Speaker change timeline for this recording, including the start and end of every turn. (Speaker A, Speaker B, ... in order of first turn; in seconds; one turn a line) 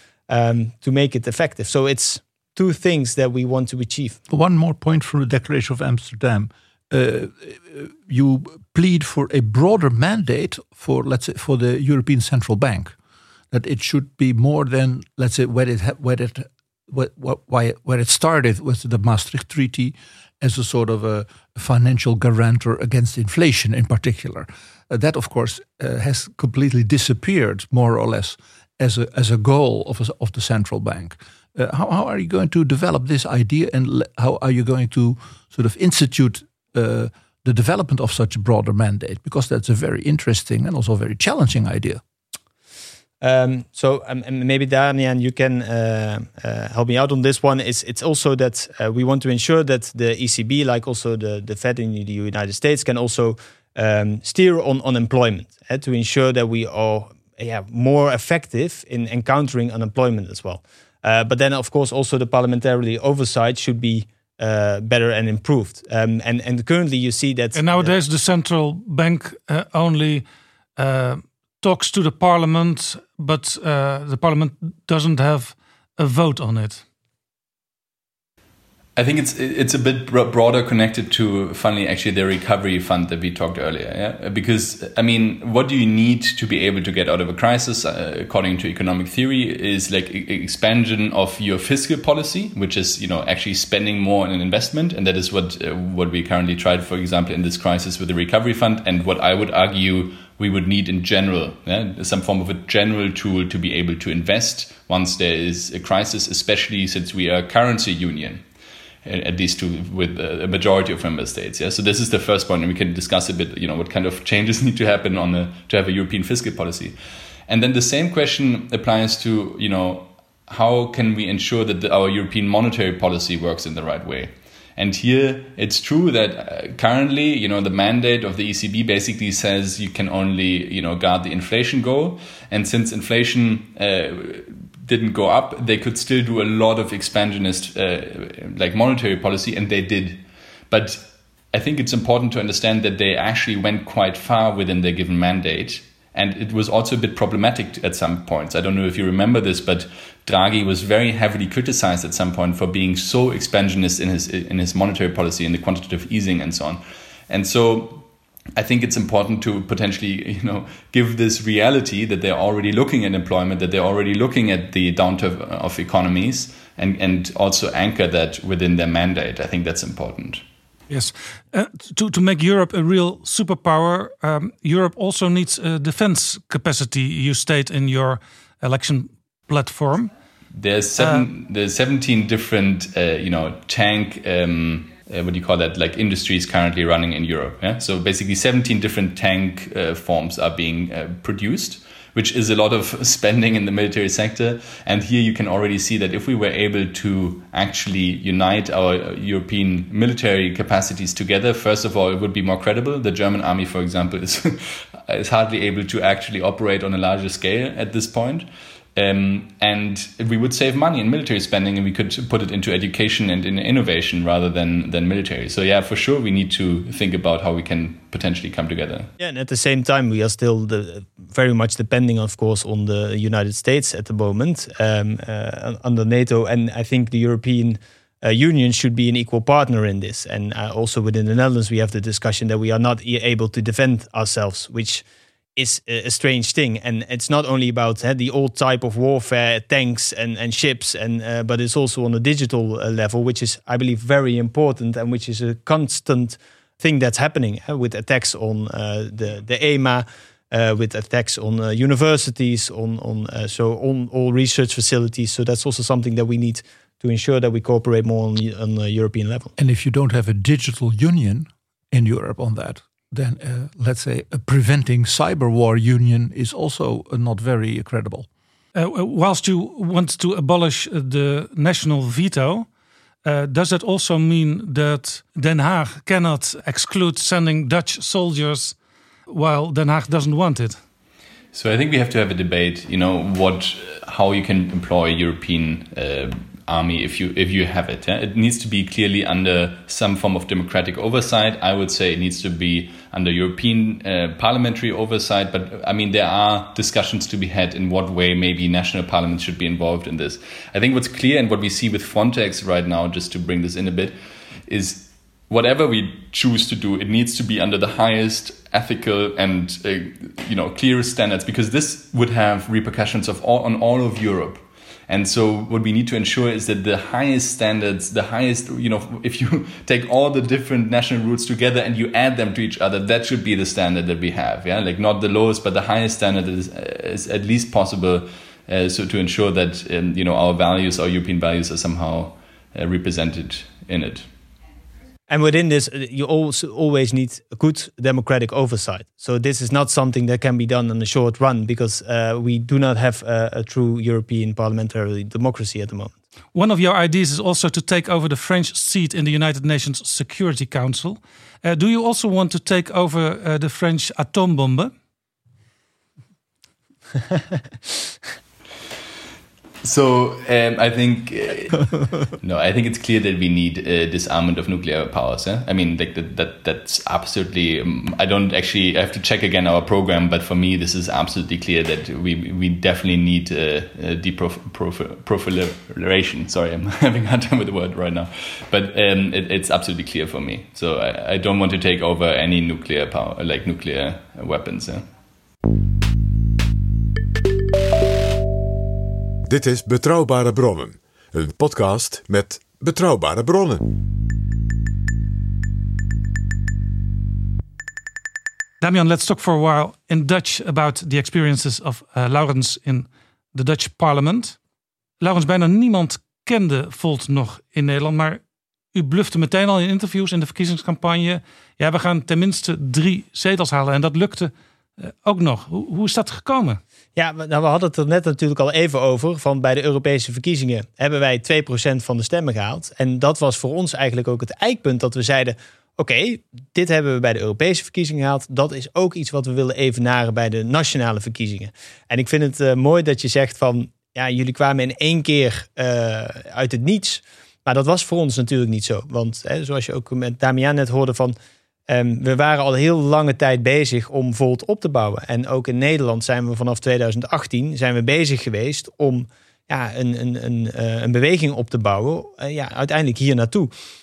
Speaker A: 0.3-4.2
Speaker B: 4.3-12.9
Speaker B: 13.5-42.0
Speaker A: 43.2-68.0
Speaker C: 67.5-70.3
Speaker C: 70.8-76.8
Speaker D: 79.0-108.4
Speaker D: 109.0-117.0
Speaker D: 117.5-170.4
Speaker C: 170.9-180.1
Speaker D: 180.6-219.1
Speaker C: 181.0-181.3
Speaker A: 219.2-235.0
Speaker A: 235.6-259.5
Speaker B: 259.6-268.3
Speaker C: 268.8-272.7
Speaker C: 273.2-278.8
Speaker C: 279.3-280.8
Speaker D: 281.5-334.3
Speaker A: 335.3-346.1
Speaker C: 346.5-354.9
Speaker D: 359.8-385.1
Speaker E: 389.5-393.9
Speaker C: 398.8-404.6
Speaker C: 405.2-408.4
Speaker C: 408.9-416.8
Speaker A: 417.2-441.4
Speaker A: 441.9-453.7